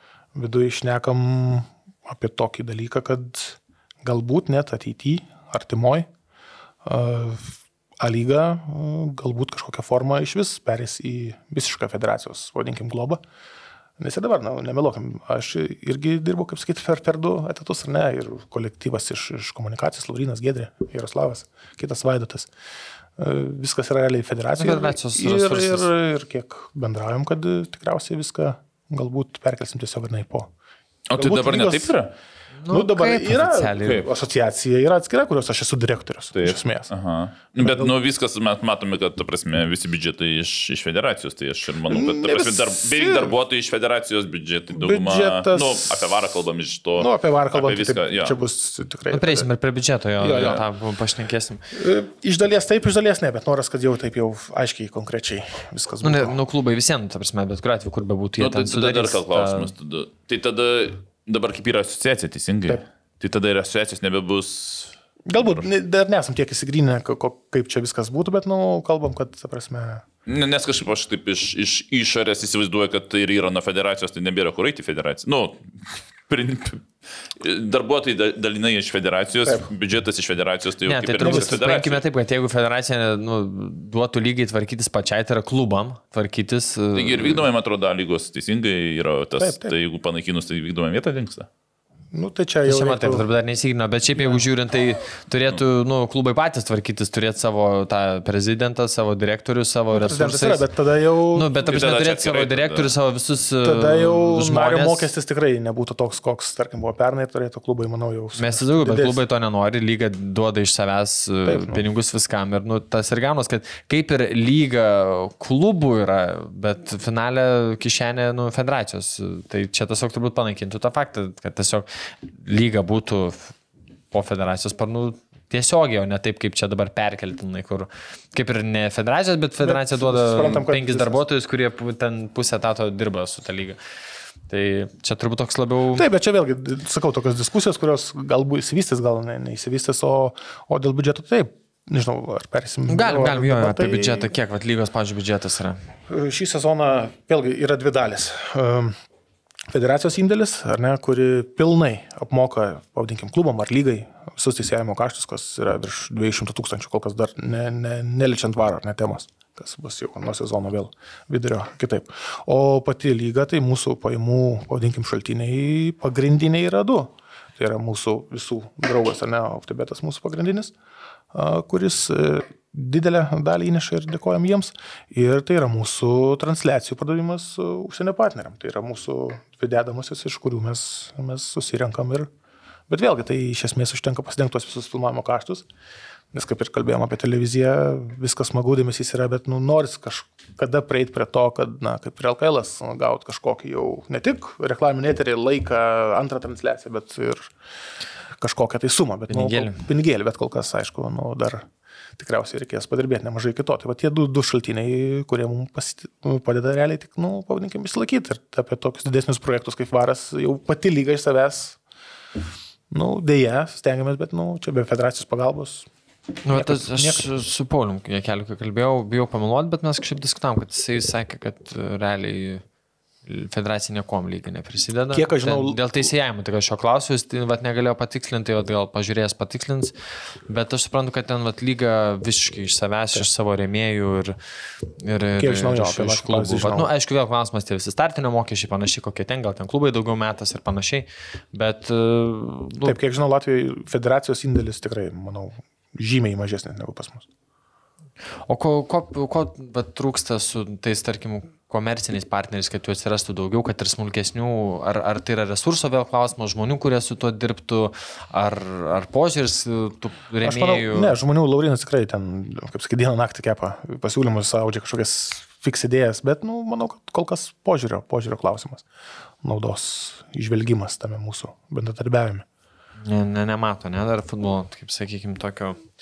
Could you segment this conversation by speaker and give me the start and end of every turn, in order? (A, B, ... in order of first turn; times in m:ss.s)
0:00.4-0:06.1 A
0:06.8-0:13.2 A
0:14.0-0:22.5 A
0:23.2-0:30.5 A
0:24.6-0:25.9 B
0:31.1-0:32.1 C
0:31.2-0:32.0 A
0:32.6-0:34.1 B
0:32.7-0:36.9 A
0:36.4-0:48.4 C
0:37.6-0:37.9 A
0:41.9-0:43.4 A
0:44.7-0:46.2 A
0:47.0-0:49.5 A
0:49.1-0:51.6 B
0:50.2-0:50.6 A
0:50.2-0:50.6 C
0:51.7-0:56.4 A
0:56.0-0:59.7 B
0:58.4-1:05.6 C
1:05.3-1:10.0 A
1:10.3-1:15.7 C
1:16.3-1:22.0 C
1:20.9-1:27.4 B
1:21.2-1:21.6 A
1:26.9-1:31.5 C
1:29.4-1:29.8 A
1:32.1-1:33.2 A
1:32.6-1:40.7 B
1:34.2-1:34.4 A
1:39.9-1:41.6 A
1:41.3-1:45.1 B
1:41.7-1:42.9 C
1:43.6-1:49.2 A
1:48.4-2:03.6 B
1:51.4-1:51.8 A
2:04.1-2:13.8 B
2:09.6-2:11.2 A
2:14.5-2:16.1 B
2:16.0-2:24.3 A
2:22.9-2:25.8 B
2:26.1-2:29.0 A
2:29.7-2:50.7 A
2:51.3-3:02.3 A
3:02.9-3:05.7 A
3:06.3-3:17.5 A
3:18.4-3:21.7 A
3:19.3-3:19.8 B
3:22.2-3:31.8 A
3:32.9-3:35.9 A
3:36.4-3:42.6 B
3:36.5-3:37.3 A
3:43.3-3:49.9 B
3:45.1-3:46.1 A
3:50.5-3:54.4 B
3:55.0-4:03.0 B
3:55.4-3:56.9 A
4:02.8-4:07.3 A
4:08.5-4:21.1 B
4:20.4-4:28.8 A
4:29.4-4:32.4 A
4:33.1-4:35.8 B